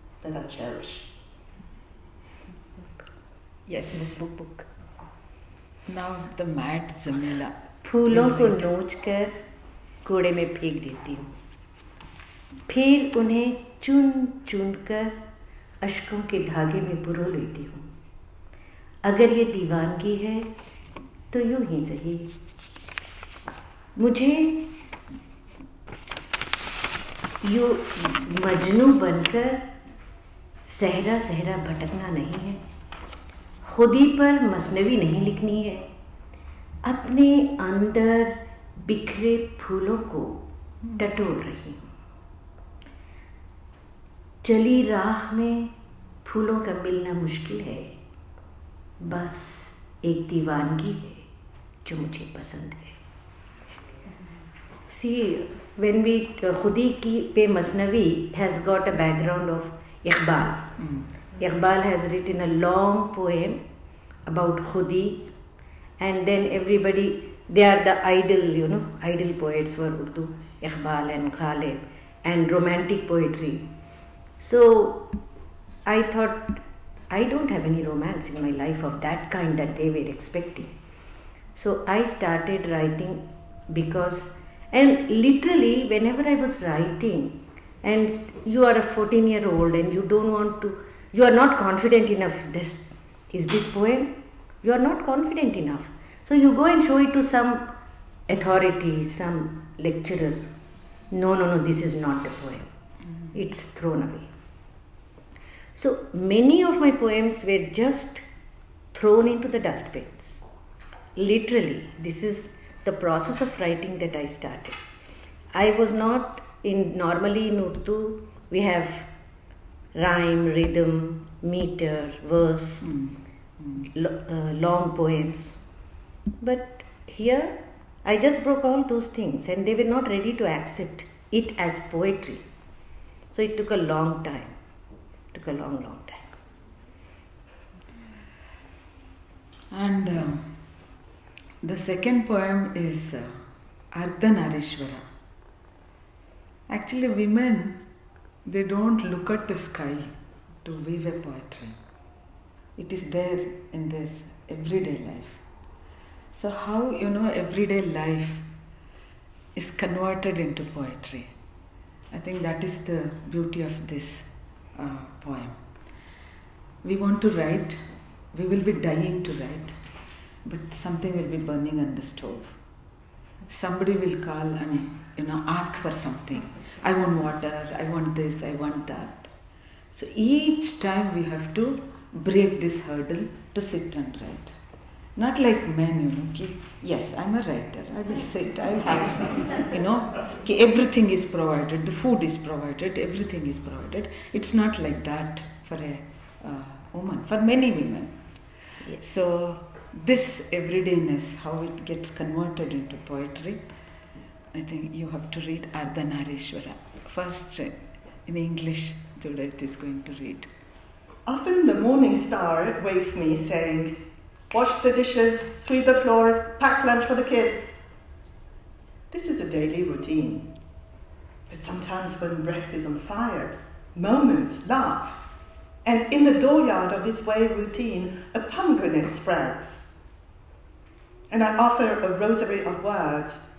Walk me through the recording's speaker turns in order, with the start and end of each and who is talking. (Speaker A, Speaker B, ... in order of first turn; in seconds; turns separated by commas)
Speaker A: 0.2-1.1, Speaker B: 3.7-4.2, Speaker C: 3.9-4.7, Speaker B: 5.9-8.7, Speaker C: 7.8-9.4, Speaker C: 10.0-11.3, Speaker C: 12.7-15.2, Speaker C: 15.8-17.9, Speaker C: 19.1-20.5, Speaker C: 21.3-22.3, Speaker C: 24.0-24.7, Speaker C: 27.4-29.6, Speaker C: 30.6-32.6, Speaker C: 33.6-35.9, Speaker C: 36.8-40.4, Speaker C: 41.0-41.9, Speaker C: 44.4-45.7, Speaker C: 46.2-47.9, Speaker C: 49.0-51.3, Speaker C: 51.9-53.0, Speaker C: 54.9-60.7, Speaker B: 60.8-61.1, Speaker C: 61.4-63.6, Speaker C: 64.3-65.3, Speaker C: 66.0-73.7, Speaker C: 74.4-75.1, Speaker C: 75.9-80.7, Speaker C: 81.5-97.7, Speaker C: 98.3-100.4, Speaker C: 101.1-102.7, Speaker C: 103.3-104.3, Speaker C: 105.8-108.2, Speaker C: 108.9-110.4, Speaker C: 111.2-114.8, Speaker C: 115.5-119.1, Speaker C: 120.0-122.9, Speaker B: 122.8-123.9, Speaker C: 124.0-125.6, Speaker C: 126.4-132.5, Speaker C: 133.3-134.6, Speaker C: 135.3-136.3, Speaker B: 139.7-140.5, Speaker B: 141.6-143.4, Speaker B: 143.9-145.0, Speaker B: 146.7-147.8, Speaker B: 148.4-150.1, Speaker B: 150.6-151.8, Speaker B: 152.8-155.4, Speaker B: 156.3-158.5, Speaker B: 159.6-161.3, Speaker B: 162.1-165.6, Speaker B: 166.8-167.8, Speaker B: 168.3-169.8, Speaker B: 170.4-172.6, Speaker B: 173.5-179.3, Speaker B: 179.9-184.5, Speaker B: 185.2-198.1, Speaker B: 198.9-203.6, Speaker B: 204.5-210.5, Speaker A: 211.3-214.0, Speaker A: 214.5-217.8, Speaker A: 219.1-220.5, Speaker A: 221.5-225.2, Speaker A: 225.8-229.8, Speaker A: 231.3-233.4